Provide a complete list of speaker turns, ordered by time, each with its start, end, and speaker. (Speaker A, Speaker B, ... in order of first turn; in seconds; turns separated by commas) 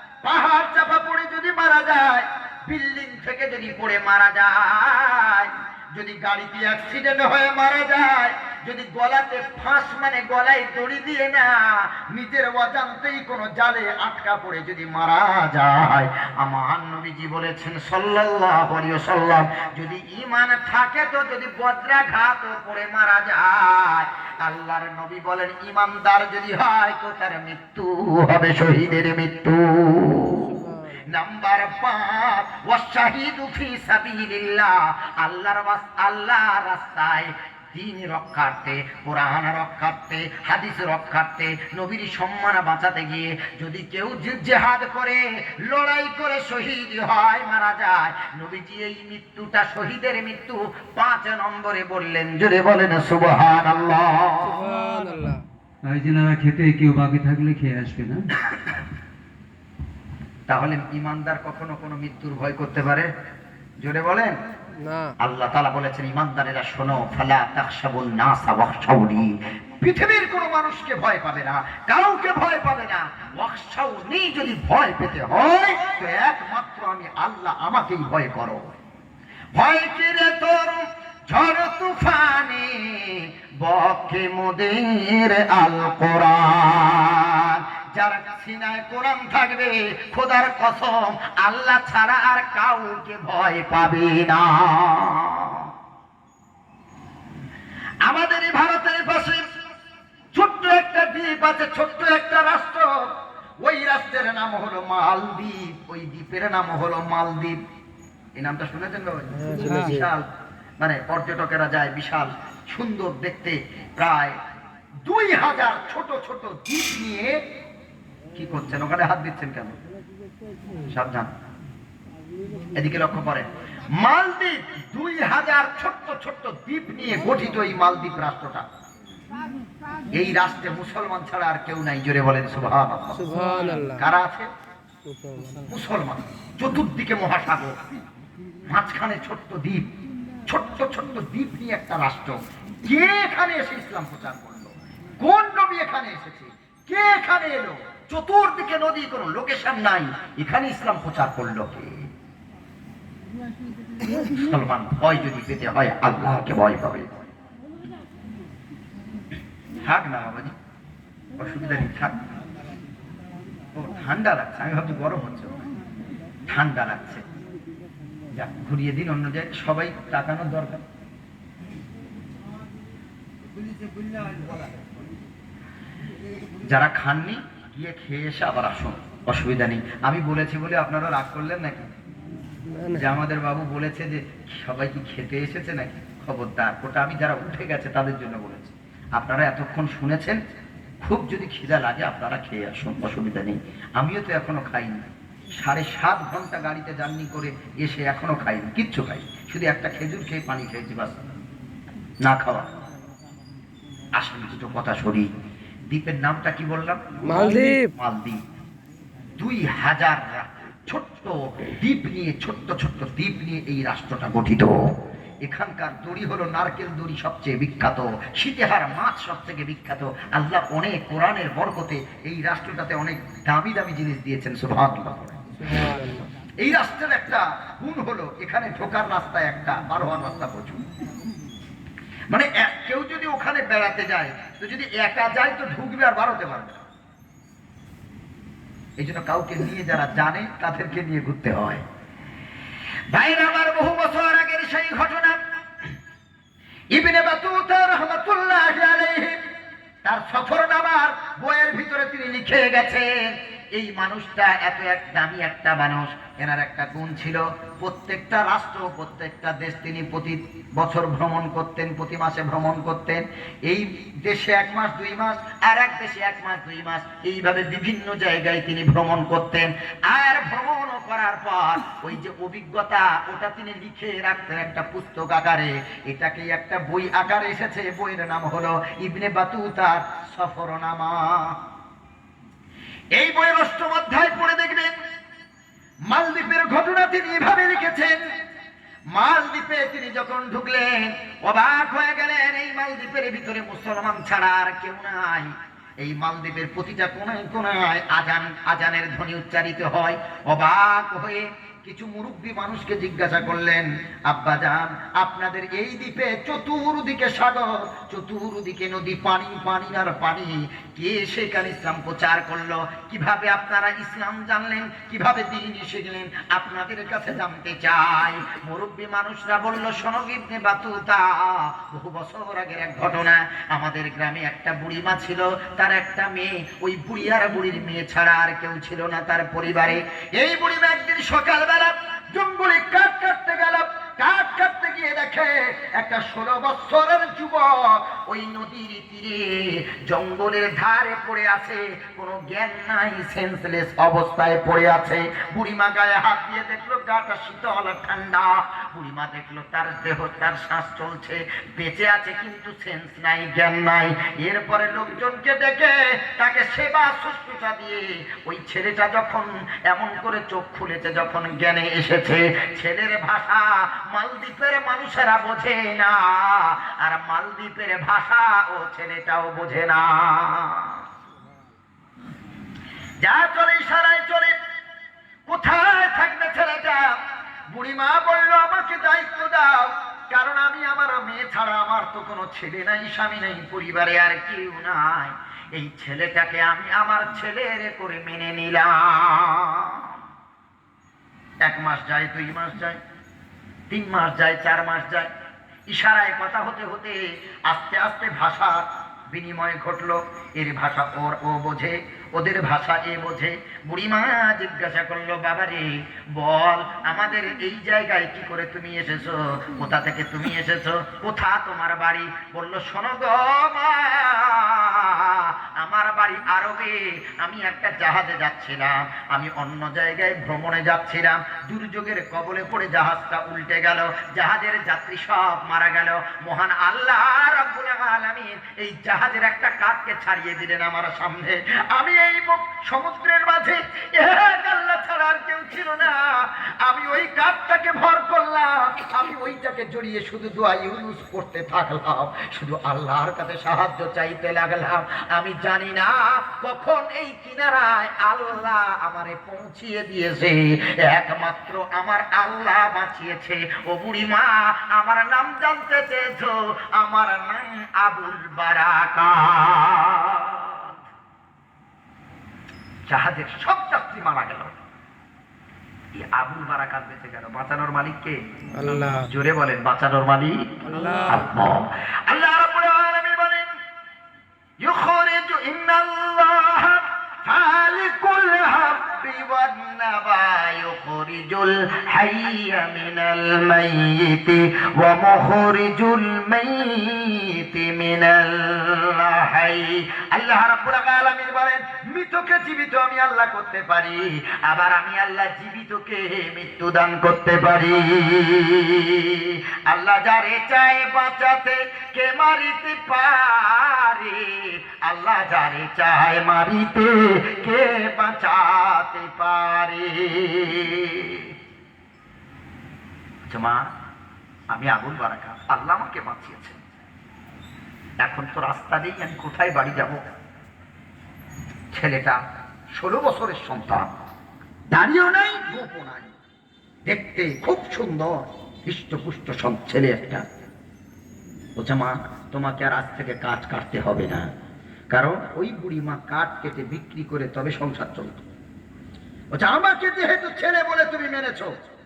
Speaker A: 0.2-30.5, Speaker B: 30.4-31.0, Speaker A: 31.1-54.6, Speaker B: 54.4-55.4, Speaker C: 55.9-58.3, Speaker A: 60.5-63.1, Speaker A: 63.8-64.3, Speaker B: 64.8-65.1, Speaker A: 65.2-78.8, Speaker A: 79.6-95.7, Speaker A: 98.0-99.4, Speaker A: 100.3-107.6, Speaker A: 108.4-110.3, Speaker B: 109.3-110.1, Speaker C: 109.7-109.9, Speaker A: 110.8-114.4, Speaker A: 115.1-117.4, Speaker A: 118.3-119.8, Speaker A: 120.9-121.3, Speaker A: 122.8-128.6, Speaker A: 130.1-133.3, Speaker B: 133.2-134.1, Speaker A: 134.0-134.5, Speaker B: 135.1-135.7, Speaker A: 135.7-137.8, Speaker A: 138.7-139.9, Speaker A: 140.5-152.1, Speaker A: 154.0-157.2, Speaker A: 159.8-160.5, Speaker A: 161.4-162.2, Speaker A: 163.8-165.6, Speaker A: 166.5-167.3, Speaker A: 168.3-170.9, Speaker A: 176.7-181.9, Speaker B: 182.7-183.1, Speaker A: 182.9-190.4, Speaker A: 191.0-195.0, Speaker A: 195.6-201.2, Speaker A: 202.2-202.7, Speaker A: 204.2-205.3, Speaker A: 205.9-208.4, Speaker B: 207.2-207.9, Speaker A: 209.4-214.9, Speaker A: 215.4-225.4, Speaker B: 225.6-226.3, Speaker A: 226.6-230.9, Speaker A: 232.3-236.8, Speaker A: 239.0-241.8, Speaker A: 243.1-245.4, Speaker A: 246.9-249.4, Speaker A: 250.0-281.5, Speaker A: 283.2-284.9, Speaker A: 286.1-288.2, Speaker A: 289.1-371.0, Speaker A: 373.2-374.6, Speaker A: 375.5-377.2, Speaker A: 377.7-390.2, Speaker A: 391.6-393.0, Speaker A: 393.9-395.3, Speaker A: 395.9-460.9, Speaker A: 463.1-464.7, Speaker A: 466.1-473.7, Speaker B: 468.8-469.3, Speaker B: 470.8-471.5, Speaker A: 474.8-511.5, Speaker A: 513.5-513.9, Speaker A: 514.7-516.8, Speaker A: 518.2-520.2, Speaker A: 521.9-522.4, Speaker A: 523.0-524.1, Speaker A: 524.9-526.3, Speaker A: 527.1-530.4, Speaker A: 531.8-534.5, Speaker A: 535.1-538.4, Speaker A: 539.5-541.8